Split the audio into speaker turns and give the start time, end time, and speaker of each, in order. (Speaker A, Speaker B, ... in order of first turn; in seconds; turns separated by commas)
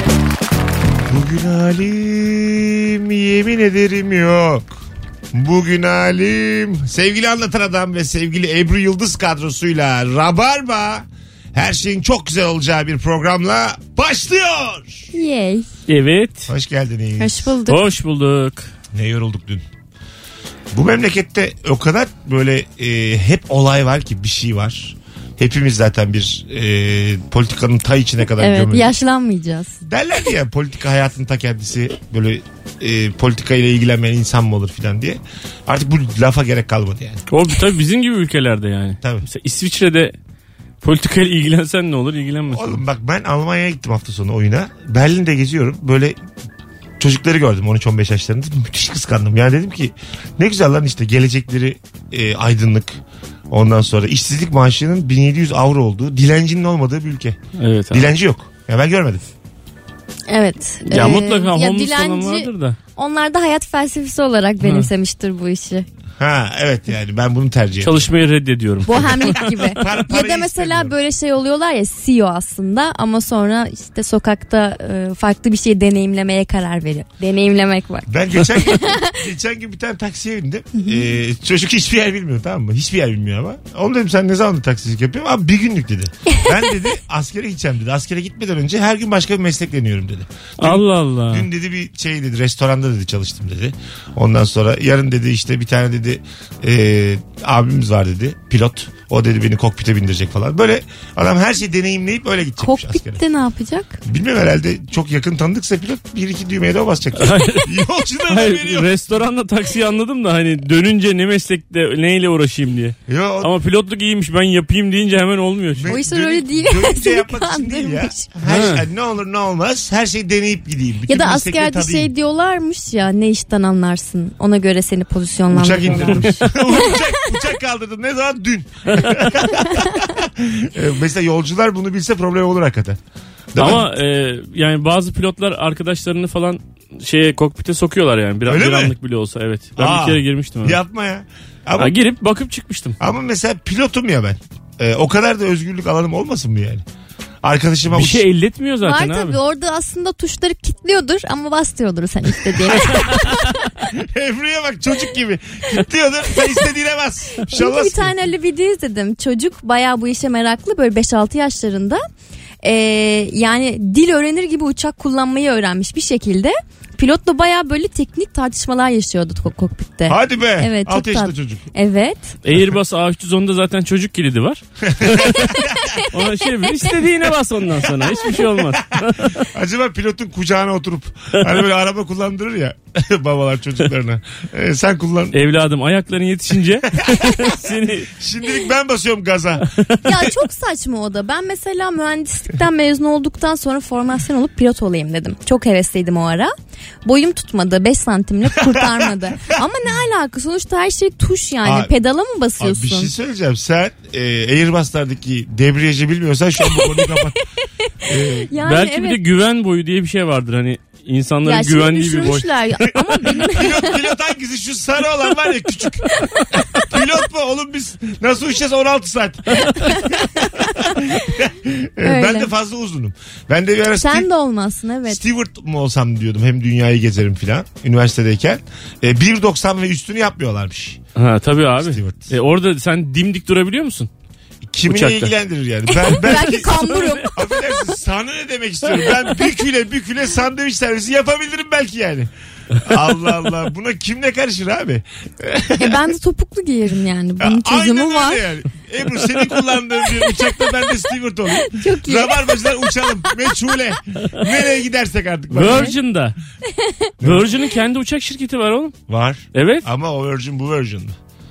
Speaker A: 1.1-15.1, Speaker B: 15.1-15.7, Speaker C: 15.9-16.5, Speaker A: 16.5-17.5, Speaker B: 17.2-17.8, Speaker C: 17.7-18.7, Speaker A: 18.9-19.6, Speaker A: 20.7-28.9, Speaker B: 28.4-29.8, Speaker A: 29.9-37.2, Speaker C: 37.3-40.1, Speaker A: 39.0-39.3, Speaker C: 40.8-42.8, Speaker A: 42.5-46.2, Speaker A: 47.0-57.4, Speaker C: 57.6-58.1, Speaker A: 57.9-59.2, Speaker B: 60.3-65.9, Speaker C: 60.9-62.8, Speaker C: 64.6-64.9, Speaker A: 66.2-68.1, Speaker C: 67.8-69.9, Speaker B: 68.8-79.2, Speaker A: 68.9-71.0, Speaker A: 78.1-103.2, Speaker C: 90.6-91.5, Speaker B: 102.6-104.0, Speaker A: 104.0-108.9, Speaker C: 107.2-107.7, Speaker C: 108.3-116.0, Speaker A: 113.1-113.5, Speaker A: 115.8-122.1, Speaker B: 115.9-118.3, Speaker C: 118.5-118.8, Speaker B: 121.1-127.0, Speaker A: 125.5-133.0, Speaker A: 133.5-133.9, Speaker C: 133.6-140.8, Speaker A: 138.5-138.9, Speaker A: 139.8-142.0, Speaker C: 141.8-143.0, Speaker A: 143.0-146.8, Speaker A: 147.4-148.2, Speaker C: 147.9-149.4, Speaker B: 148.8-153.4, Speaker A: 153.9-158.1, Speaker B: 157.5-162.0, Speaker B: 162.6-172.3, Speaker A: 170.1-171.7, Speaker C: 172.4-179.4, Speaker A: 174.9-175.7, Speaker B: 175.7-176.0, Speaker A: 179.5-185.4, Speaker C: 185.3-188.1, Speaker A: 187.0-187.5, Speaker A: 188.2-190.3, Speaker B: 190.0-196.5, Speaker B: 197.1-203.1, Speaker A: 198.5-199.1, Speaker A: 201.6-201.9, Speaker A: 202.6-207.4, Speaker B: 206.8-207.1, Speaker A: 208.1-208.5, Speaker B: 208.4-209.2, Speaker C: 208.6-212.5, Speaker B: 211.4-214.0, Speaker A: 213.4-216.1, Speaker A: 216.8-224.3, Speaker B: 220.6-220.9, Speaker B: 222.0-222.5, Speaker B: 224.0-225.2, Speaker A: 225.1-231.0, Speaker C: 231.2-234.1, Speaker A: 231.8-232.3, Speaker A: 234.6-246.0, Speaker C: 234.9-235.3, Speaker B: 235.9-237.4, Speaker B: 245.8-248.4, Speaker A: 247.4-255.9, Speaker B: 251.7-253.3, Speaker C: 255.5-256.4, Speaker B: 255.6-255.9, Speaker B: 256.7-257.1, Speaker A: 257.2-257.5, Speaker C: 257.2-258.9, Speaker A: 259.1-261.2, Speaker C: 259.5-259.9